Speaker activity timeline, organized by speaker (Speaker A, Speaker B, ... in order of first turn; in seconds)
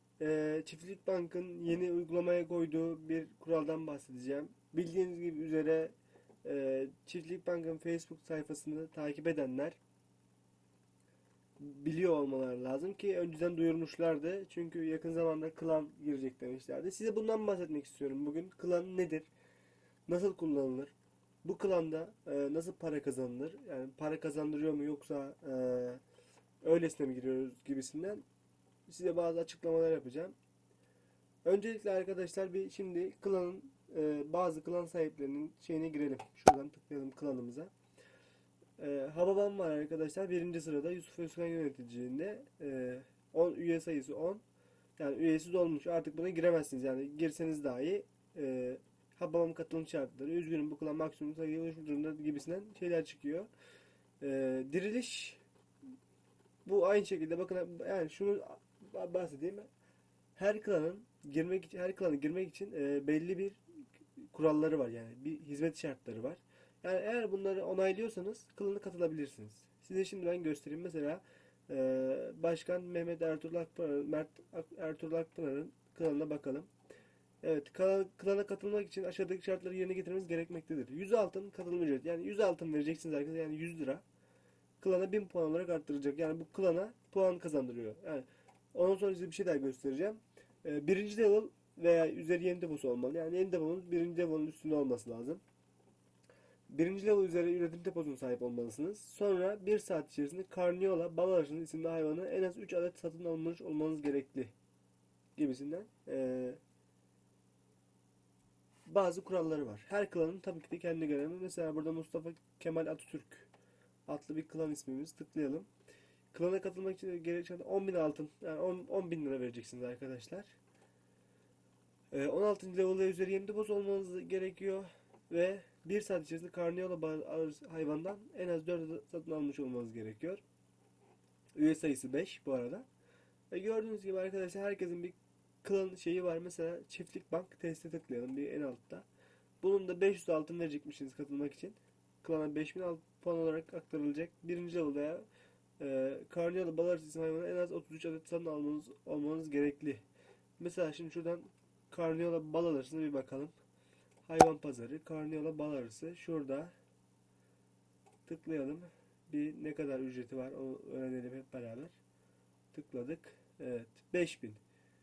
Speaker A: 0.2-9.8, 11.6-19.3, 20.1-26.0, 26.6-28.2, 28.9-30.4, 31.4-37.7, 38.8-44.4, 45.0-53.5, 54.2-55.4, 56.6-59.7, 60.4-63.6, 64.3-76.7, 77.4-84.0, 84.8-95.4, 96.7-104.5, 105.4-106.6, 108.9-113.5, 114.1-115.7, 116.3-120.6, 122.1-130.4, 131.6-132.9, 133.5-139.1, 139.6-145.3, 145.8-150.0, 150.6-153.5, 154.3-156.7, 158.3-162.0, 162.7-164.6